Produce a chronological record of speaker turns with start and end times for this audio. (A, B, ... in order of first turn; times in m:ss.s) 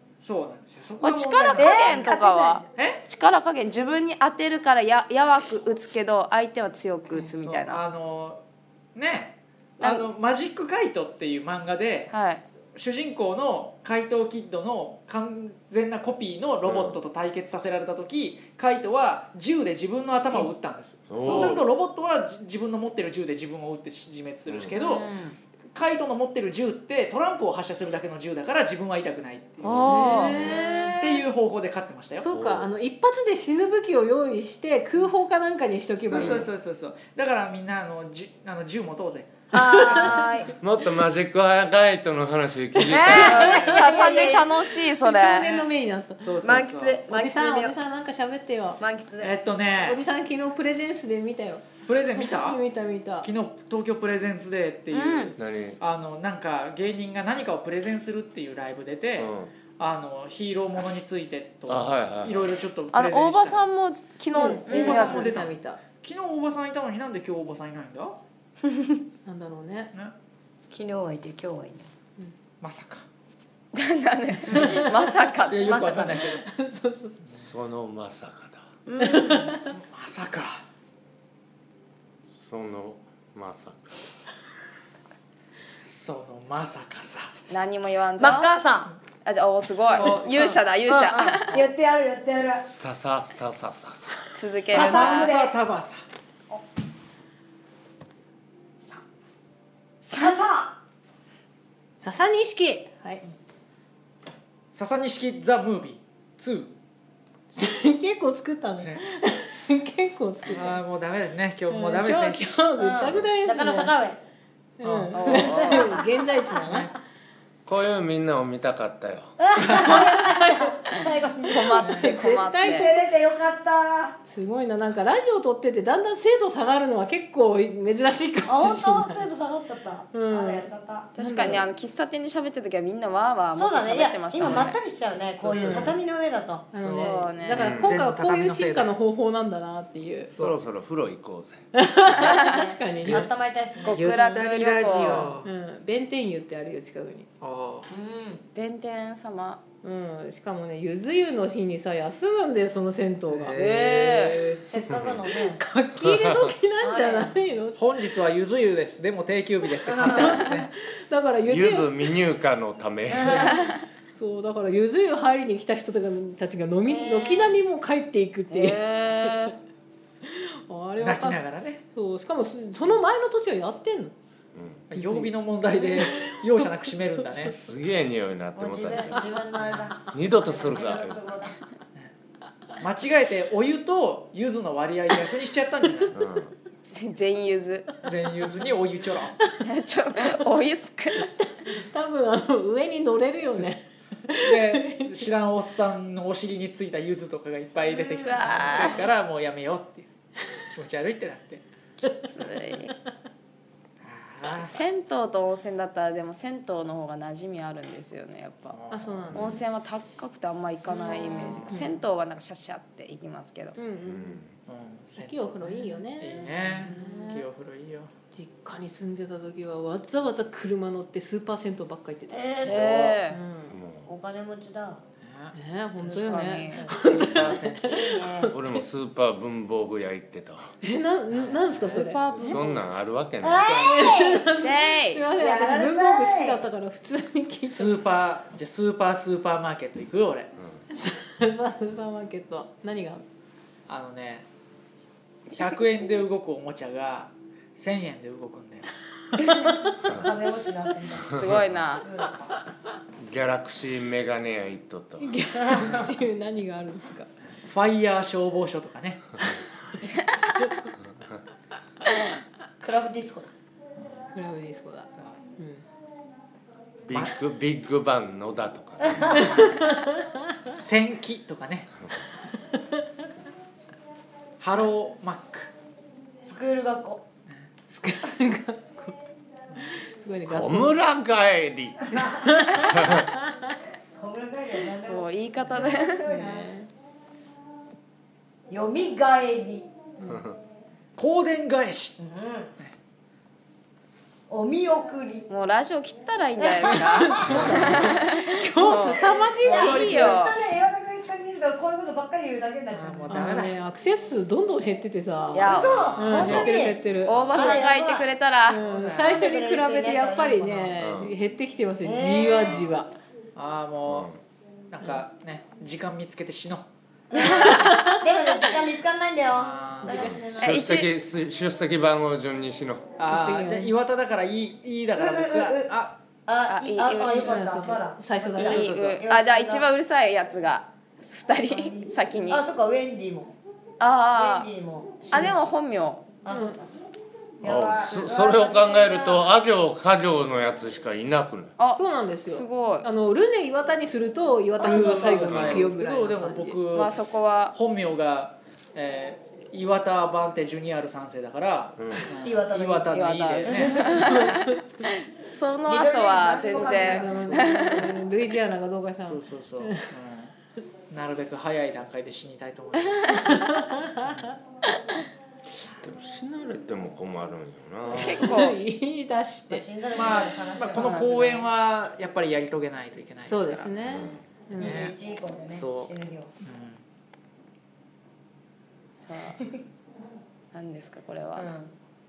0:00.2-0:01.8 A
0:01.0-0:07.8 B
0:01.6-0:02.7 C
0:07.1-0:08.4 A
0:09.0-0:12.1 A
0:09.8-0:10.1 B
0:12.1-0:12.4 B
0:12.8-0:25.1 A
0:16.6-0:17.0 D
0:21.1-0:21.6 D
0:24.5-0:24.7 D
0:24.7-0:25.4 C
0:25.7-0:30.4 A
0:29.6-0:30.5 B
0:29.6-0:30.6 D
0:29.9-0:31.2 E
0:31.0-0:32.3 A
0:32.2-0:36.5 E
0:32.3-0:32.7 D
0:36.1-0:36.5 D
0:36.1-0:40.1 A
0:39.5-0:40.5 C
0:39.6-0:40.2 E
0:40.6-0:43.7 D
0:42.9-0:44.7 C
0:43.0-0:43.9 A
0:43.2-0:45.5 B
0:45.0-0:46.3 E
0:45.4-0:45.8 C
0:46.2-0:47.0 A
0:46.4-0:47.8 C
0:47.1-0:48.8 E
0:48.8-0:49.4 C
0:49.2-0:50.0 A
0:49.8-0:53.3 E
0:51.9-0:52.6 A
0:53.2-1:03.7 A
0:54.9-0:55.4 C
0:55.4-0:55.8 D
0:59.2-0:59.5 D
1:01.7-1:02.5 D
1:02.9-1:05.4 B
1:04.3-1:08.2 A
1:04.3-1:05.8 E
1:08.7-1:09.0 C
1:09.3-1:09.9 E
1:10.7-1:11.9 C
1:12.6-1:13.0 A
1:13.7-1:16.2 B
1:14.5-1:14.8 C
1:15.5-1:16.4 A
1:15.5-1:16.2 C
1:16.2-1:17.2 E
1:17.4-1:18.6 D
1:18.9-1:19.2 C
1:19.0-1:19.7 E
1:19.0-1:20.6 A
1:22.3-1:24.0 D
1:25.8-1:27.3 A
1:27.5-1:28.5 B
1:28.2-1:28.9 C
1:29.2-1:31.6 B
1:29.9-1:30.3 A
1:30.3-1:32.6 C
1:32.4-1:34.3 D
1:34.3-1:35.4 B
1:34.7-1:36.0 A
1:34.7-1:35.6 C
1:40.0-1:40.8 C
1:42.0-1:43.2 E
1:44.7-1:46.7 A
1:47.5-1:50.8 E
1:50.5-1:52.7 A
1:51.7-1:54.0 E
1:52.8-1:54.2 C
1:54.8-1:56.9 E
1:54.8-1:55.8 A
1:55.1-1:56.0 B
1:55.6-1:56.0 C
1:56.5-1:56.9 A
1:57.7-1:59.3 D
1:59.4-2:02.0 C
1:59.6-2:00.1 A
2:01.5-2:02.9 B
2:01.8-2:02.1 A
2:01.8-2:03.0 E
2:02.6-2:04.2 C
2:04.3-2:09.2 E
2:08.5-2:11.1 C
2:10.1-2:11.7 E
2:11.2-2:14.8 B
2:13.5-2:16.7 C
2:15.4-2:16.0 E
2:15.5-2:15.9 A
2:15.6-2:15.9 B
2:16.7-2:20.3 E
2:16.7-2:18.9 A
2:16.9-2:17.7 B
2:17.6-2:18.0 D
2:20.3-2:21.6 D
2:21.7-2:23.3 E
2:22.2-2:22.8 B
2:23.0-2:23.3 A
2:23.0-2:24.1 C
2:23.8-2:25.4 B
2:23.9-2:25.5 A
2:25.4-2:27.3 E
2:27.4-2:27.9 A
2:27.9-2:28.4 C
2:28.6-2:29.6 B
2:29.8-2:33.6 E
2:33.3-2:34.6 A
2:33.5-2:34.4 B
2:34.6-2:35.6 C
2:34.9-2:35.2 D
2:35.3-2:37.8 E
2:36.0-2:36.5 D
2:36.8-2:37.4 C
2:37.8-2:40.7 A
2:39.9-2:40.4 C
2:40.0-2:42.1 E
2:41.5-2:43.6 D
2:43.1-2:43.5 C
2:43.3-2:49.5 E
2:46.9-2:47.6 C
2:48.5-2:49.6 B
2:50.2-2:54.1 E
2:51.0-2:51.8 A
2:54.6-2:54.8 D
2:54.9-2:57.6 A
2:55.0-2:57.6 E
2:57.7-2:59.4 D
2:58.6-3:01.6 C
2:59.6-2:59.9 A
3:00.1-3:01.2 D
3:02.8-3:06.2 A
3:06.2-3:06.5 D
3:06.8-3:07.9 B
3:08.0-3:09.4 A
3:09.7-3:11.3 B
3:11.1-3:15.1 E
3:14.4-3:20.1 A
3:18.2-3:19.0 B
3:20.7-3:21.6 A
3:22.2-3:22.9 B
3:24.0-3:24.8 A
3:24.5-3:28.8 B
3:28.7-3:29.6 A
3:28.9-3:29.6 E
3:29.3-3:33.8 B
3:30.9-3:32.0 E
3:33.8-3:34.4 E
3:34.0-3:34.5 D
3:34.7-3:38.1 A
3:35.2-3:37.4 E
3:38.3-3:43.8 E
3:42.3-3:43.2 C
3:42.6-3:43.4 B
3:42.7-3:43.0 D
3:43.7-3:44.1 D
3:44.0-3:45.0 C
3:45.2-3:45.6 A
3:45.5-3:48.2 E
3:46.0-3:46.9 B
3:46.1-3:48.5 A
3:47.9-3:48.5 C
3:48.5-3:50.7 D
3:50.8-3:52.6 E
3:51.3-3:51.8 A
3:51.8-3:53.7 D
3:51.8-3:52.8 B
3:53.4-3:54.5 C
3:53.6-3:57.9 E
3:54.6-3:55.3 B
3:55.3-3:56.6 C
3:57.6-4:00.5 A
4:00.9-4:03.2 E
4:03.9-4:04.4 A
4:05.5-4:08.9 A
4:09.4-4:12.4 C
4:11.3-4:11.9 D
4:11.3-4:12.0 B
4:13.2-4:15.4 D
4:15.2-4:17.3 E
4:15.5-4:16.1 C
4:17.7-4:19.3 A
4:20.4-4:20.7 A
4:22.8-4:23.5 C
4:24.3-4:25.8 E
4:27.1-4:29.6 D
4:29.0-4:29.4 C
4:29.4-4:30.3 E
4:30.7-4:31.9 A
4:34.6-4:35.7 A
4:36.4-4:37.2 C
4:37.9-4:39.2 E
4:39.8-4:41.0 E
4:40.5-4:42.1 D
4:42.2-4:42.6 C
4:42.2-4:43.4 E
4:42.8-4:43.3 D
4:44.2-4:46.7 C
4:45.1-4:46.2 B
4:46.3-4:46.9 E
4:48.7-4:49.9 C
4:50.3-4:50.6 D
4:51.2-4:52.2 A
4:52.2-4:52.7 C
4:54.5-4:55.5 C
4:55.5-5:00.6 B
4:56.6-4:57.7 C
4:57.1-5:00.4 E
4:57.5-4:58.0 D
4:59.6-5:03.4 C
5:02.9-5:03.8 A
5:03.3-5:07.8 E
5:05.5-5:06.2 B
5:05.6-5:07.0 C
5:06.1-5:06.5 A
5:06.4-5:06.7 D
5:07.2-5:08.8 B
5:07.5-5:08.3 C
5:08.7-5:13.1 E
5:08.9-5:11.0 C
5:11.0-5:11.3 D
5:12.0-5:12.8 C
5:13.6-5:14.3 A
5:14.1-5:14.4 D
5:14.9-5:16.9 A
5:17.3-5:20.9 C
5:17.5-5:18.2 E
5:19.5-5:20.5 A
5:20.0-5:23.1 D
5:20.6-5:21.1 B
5:23.2-5:26.1 A
5:23.2-5:24.0 E
5:25.2-5:29.9 C
5:26.7-5:27.6 B
5:27.5-5:28.9 E
5:28.6-5:32.6 B
5:31.7-5:33.5 C
5:34.0-5:34.7 B
5:34.3-5:35.6 C
5:35.3-5:36.3 B
5:36.4-5:36.9 C
5:36.5-5:36.8 E
5:37.6-5:39.5 C
5:37.6-5:41.7 D
5:41.8-5:43.1 B
5:42.0-5:46.8 E
5:44.8-5:47.2 A
5:45.3-5:45.9 D
5:46.9-5:47.8 B
5:47.7-5:54.1 A
5:52.0-5:52.3 D
5:52.4-5:54.2 C
5:53.1-5:54.7 B
5:53.9-5:54.9 E
5:55.3-5:58.1 B
5:55.9-5:57.6 C
5:56.6-6:00.0 E
5:57.3-5:58.1 A
5:59.2-6:00.5 A
6:01.1-6:03.6 A
6:03.3-6:04.5 E
6:06.0-6:08.5 D
6:08.1-6:08.8 B
6:08.1-6:09.9 E
6:09.7-6:11.6 C
6:10.1-6:13.9 A
6:10.9-6:11.3 B
6:13.5-6:15.1 E
6:14.0-6:14.4 D
6:14.8-6:15.2 A
6:14.8-6:16.5 C
6:15.7-6:17.0 A
6:19.2-6:19.6 B
6:20.7-6:21.7 B
6:21.6-6:21.9 C